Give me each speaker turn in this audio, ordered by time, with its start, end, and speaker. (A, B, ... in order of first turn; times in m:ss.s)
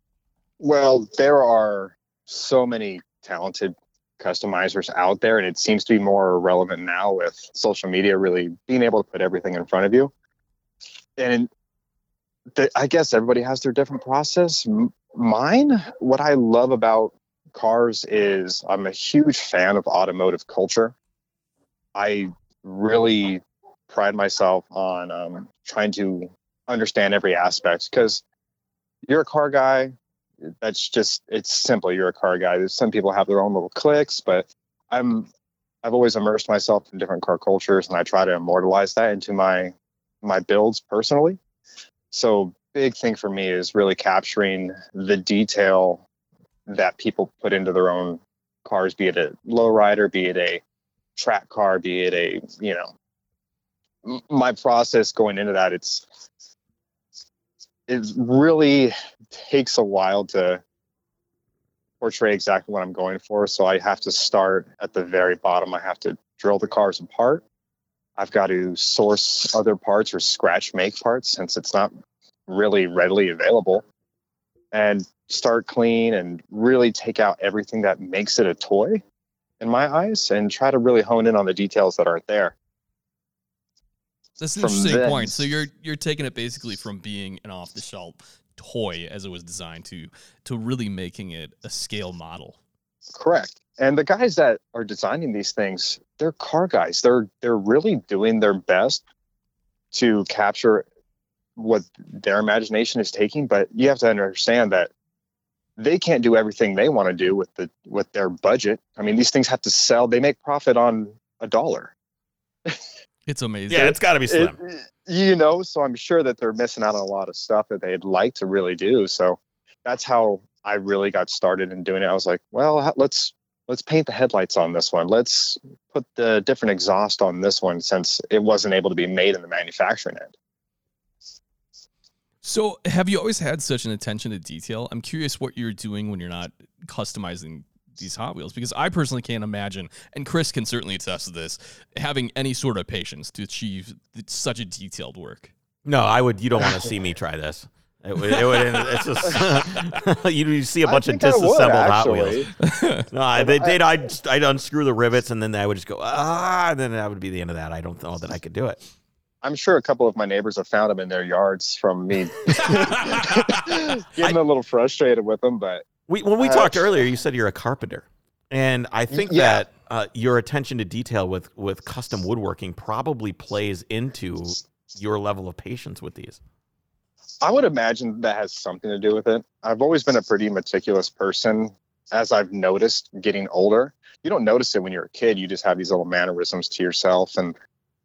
0:00.6-0:10.1 A
0:11.2-0:11.5 A
0:12.5-0:20.9 A
0:21.9-0:28.2 A
0:29.0-0:29.9 A
0:30.5-0:35.3 A
0:35.8-0:41.4 A
0:42.1-0:46.0 A
0:46.7-0:50.6 A
0:51.2-0:52.9 A
0:54.0-0:56.0 A
0:57.9-1:00.6 A
1:02.0-1:07.4 A
1:08.2-1:11.9 A
1:12.5-1:13.8 A
1:14.7-1:19.0 A
1:19.6-1:22.5 A
1:24.4-1:32.6 B
1:24.6-1:25.5 A
1:33.1-1:39.0 A
1:39.9-1:40.8 A
1:41.6-1:44.9 A
1:45.8-1:51.9 A
1:53.3-1:54.0 B
1:53.7-1:54.6 C
1:54.3-2:10.3 A
2:12.4-2:25.5 B
2:25.8-2:32.4 C
2:30.8-2:32.5 A
2:32.6-2:33.0 B
2:33.1-2:38.8 C
2:33.4-2:33.8 A
2:39.4-2:45.9 A
2:46.1-2:56.4 C
2:46.4-2:47.0 A
2:49.1-2:49.6 A
2:57.4-3:07.6 A